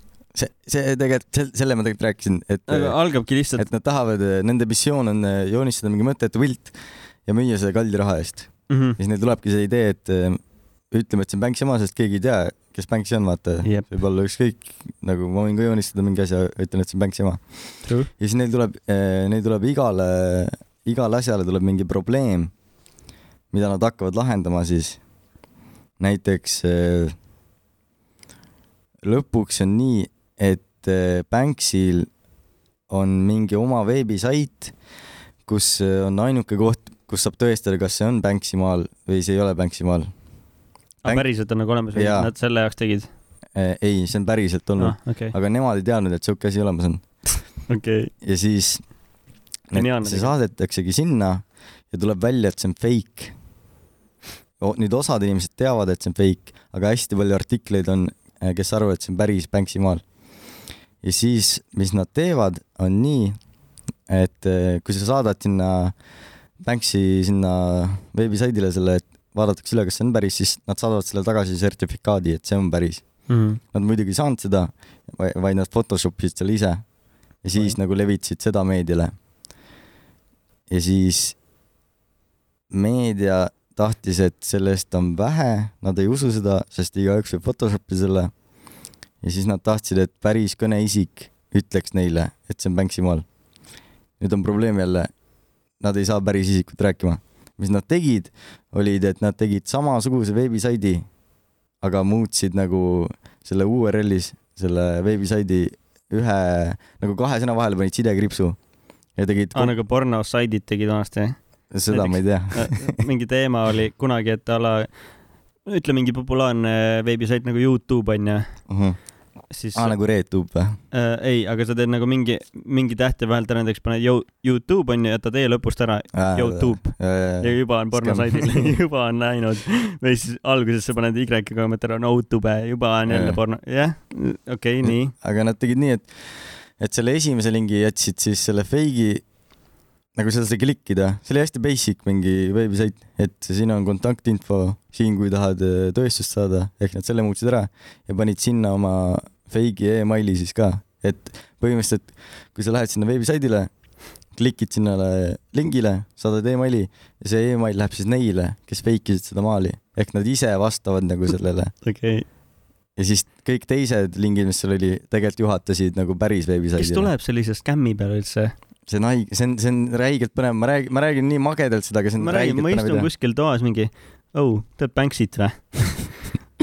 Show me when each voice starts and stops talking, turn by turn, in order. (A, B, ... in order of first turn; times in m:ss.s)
0:00.3-0:03.0 A
0:02.7-0:03.6 B
0:03.6-0:10.4 A
0:08.7-0:09.0 B
0:10.9-0:17.4 A
0:13.6-0:14.0 B
0:17.8-0:18.1 B
0:18.2-0:22.5 A
0:23.5-0:25.0 A
0:26.0-0:27.1 A
0:29.0-0:32.1 A
0:32.9-0:34.7 A
0:35.4-0:40.1 A
0:41.0-0:43.1 B
0:41.9-0:42.3 A
0:43.5-0:47.0 A
0:44.8-0:45.3 B
0:47.7-0:48.1 B
0:48.2-0:48.8 A
0:49.7-0:53.3 A
0:49.7-0:50.3 B
0:54.6-1:00.0 A
1:01.0-1:03.4 A
1:04.1-1:05.9 A
1:06.6-1:13.0 A
1:13.3-1:13.6 B
1:13.7-1:16.8 A
1:17.4-1:19.1 A
1:20.7-1:21.4 A
1:22.7-1:28.3 A
1:29.2-1:33.2 A
1:34.2-1:35.1 A
1:35.8-1:41.0 A
1:41.8-1:48.6 A
1:49.2-1:49.7 A
1:49.5-1:51.4 B
1:51.7-1:53.0 A
1:51.9-1:54.9 B
1:55.6-1:58.4 B
1:58.7-1:59.0 A
1:59.5-2:00.0 B
1:59.7-2:00.8 A
2:00.9-2:15.1 B
2:06.1-2:08.7 A
2:13.1-2:13.4 A
2:14.8-2:16.1 A
2:16.8-2:19.2 A
2:20.1-2:33.7 A
2:34.3-2:41.7 A
2:41.8-2:42.2 B
2:43.0-2:47.1 A
2:46.8-2:48.5 B
2:48.9-2:53.1 A
2:52.2-2:56.3 B